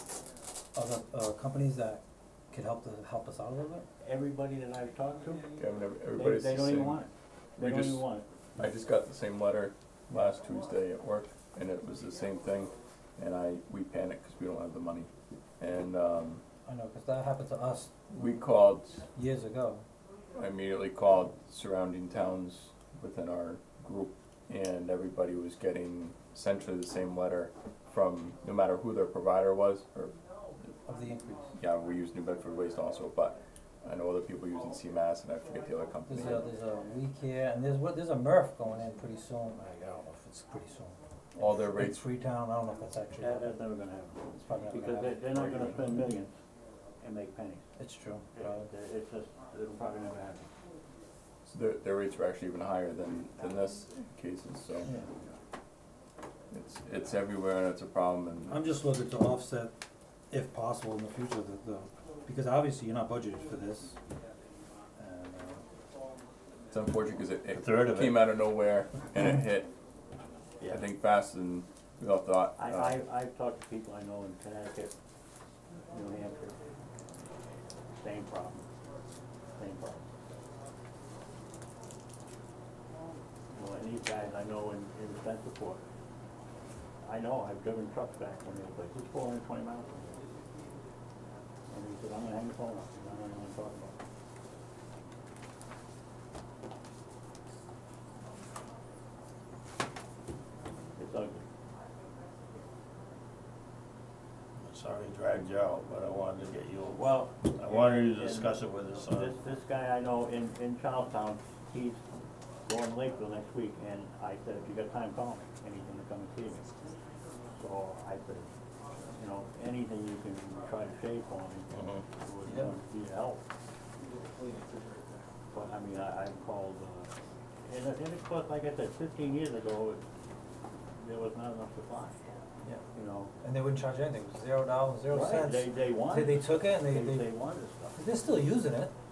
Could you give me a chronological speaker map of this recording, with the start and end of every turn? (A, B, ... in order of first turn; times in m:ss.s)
0:00.8-0:03.9 A
0:04.0-0:05.5 B
0:05.5-0:07.0 C
0:06.2-0:08.3 B
0:07.6-0:15.1 C
0:15.6-0:16.4 C
0:16.7-0:18.1 A
0:18.1-0:19.1 C
0:19.1-0:19.8 A
0:20.4-0:30.2 C
0:30.8-0:31.6 A
0:31.6-0:36.5 C
0:36.1-0:43.6 A
0:41.4-0:42.0 C
0:43.2-0:46.4 B
0:44.3-0:46.0 A
0:47.0-0:47.7 B
0:47.8-0:48.7 A
0:48.4-0:50.5 B
0:51.5-0:55.0 C
0:56.5-0:58.6 C
0:58.5-0:59.7 A
1:00.3-1:04.0 A
1:05.0-1:05.6 A
1:06.7-1:09.7 C
1:07.5-1:08.2 D
1:10.7-1:13.0 C
1:12.6-1:14.9 B
1:15.9-1:16.8 B
1:18.0-1:18.7 B
1:19.6-1:20.1 B
1:23.5-1:25.8 B
1:27.0-1:30.2 B
1:31.7-1:34.0 B
1:41.0-1:41.5 B
1:44.6-1:49.3 D
1:46.9-1:52.1 B
1:52.6-1:56.8 B
1:57.6-1:58.5 B
1:59.1-2:03.5 B
2:01.7-2:02.0 D
2:02.5-2:02.7 A
2:05.5-2:10.0 B
2:11.0-2:12.2 B
2:12.9-2:13.3 B
2:13.4-2:17.3 A
2:15.1-2:18.1 B
2:18.0-2:18.9 A